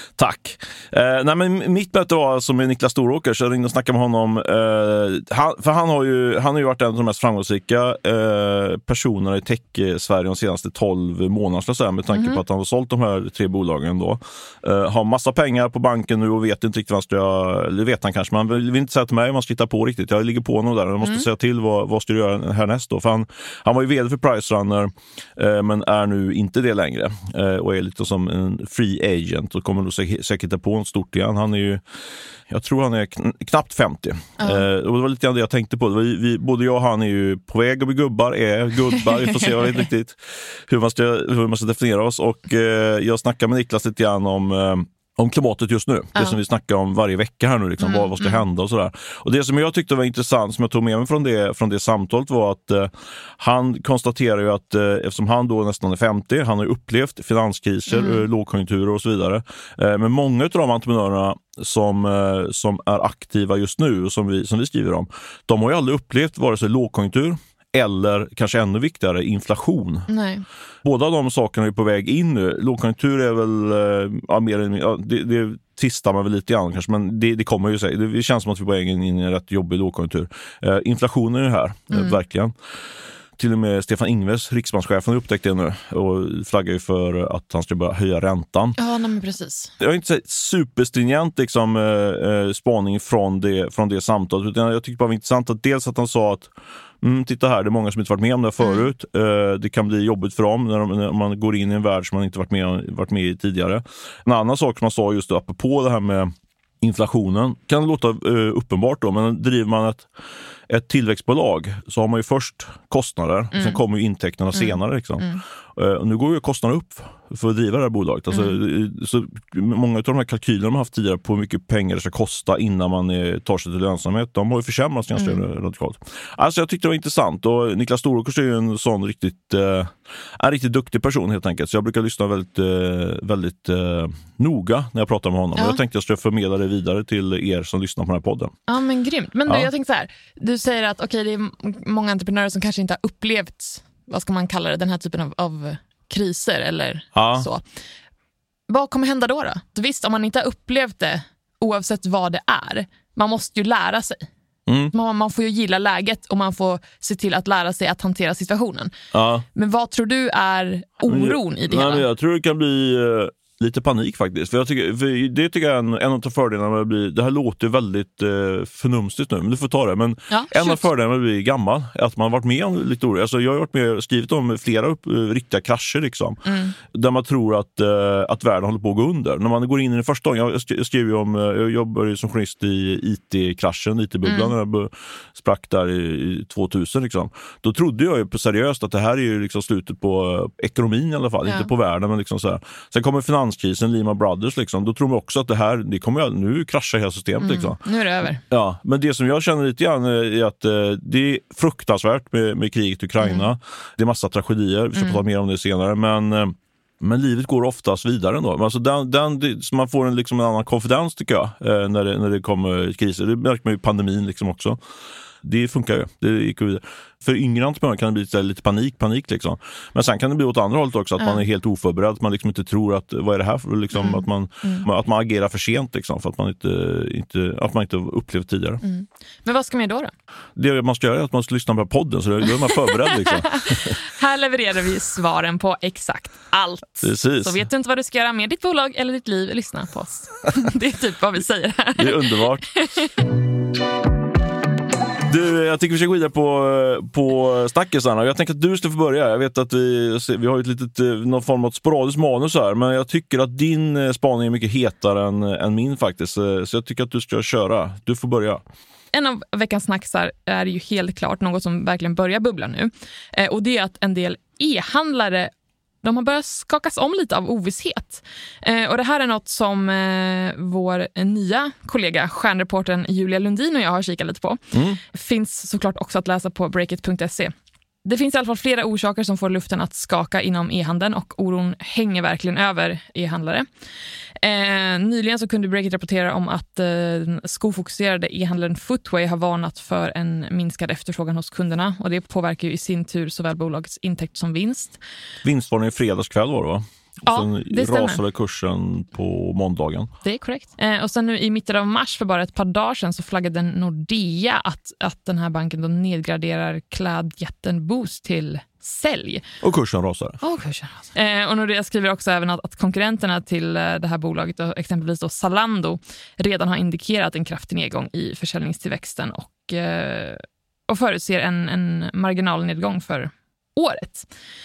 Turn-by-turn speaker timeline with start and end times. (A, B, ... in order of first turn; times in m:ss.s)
0:00.2-0:31.8 A
0:12.1-0:12.4 B
0:21.0-0:21.3 B
0:32.5-1:10.1 A
0:34.4-0:34.6 B
0:39.0-0:39.8 B
0:47.8-0:48.4 B
0:57.9-0:58.2 B
1:10.1-1:10.4 B
1:10.8-1:22.5 A
1:21.9-1:22.2 B
1:23.4-1:28.8 A
1:28.8-1:29.7 B
1:29.8-1:36.5 A
1:37.0-1:50.1 A
1:50.7-2:18.5 A
1:53.5-1:53.8 B
1:54.5-1:55.4 B
2:05.2-2:05.4 B
2:18.7-2:27.6 B
2:27.1-2:27.4 A
2:28.7-2:34.3 B
2:34.7-2:34.9 A
2:34.9-2:38.9 B
2:39.1-2:39.4 A
2:39.5-2:42.0 B
2:41.1-3:17.8 A
2:50.3-2:50.8 B
2:56.4-2:56.8 B
3:04.2-3:04.5 B
3:17.4-3:18.4 B
3:18.5-3:34.8 A
3:23.2-3:23.5 B
3:35.4-3:48.8 A
3:44.0-3:44.9 B
3:48.8-3:50.1 B
3:50.6-3:54.0 A
3:52.7-4:03.1 B
3:57.0-3:57.6 A
4:02.0-4:02.6 A
4:05.3-4:18.6 A
4:19.1-4:25.5 B
4:26.0-4:37.5 B
4:34.7-4:35.0 A
4:38.0-4:43.7 B
4:44.4-4:55.0 B
4:55.4-5:00.1 A
4:57.2-4:58.2 B
5:00.2-5:09.4 B
5:09.6-5:10.4 A
5:10.4-5:24.3 B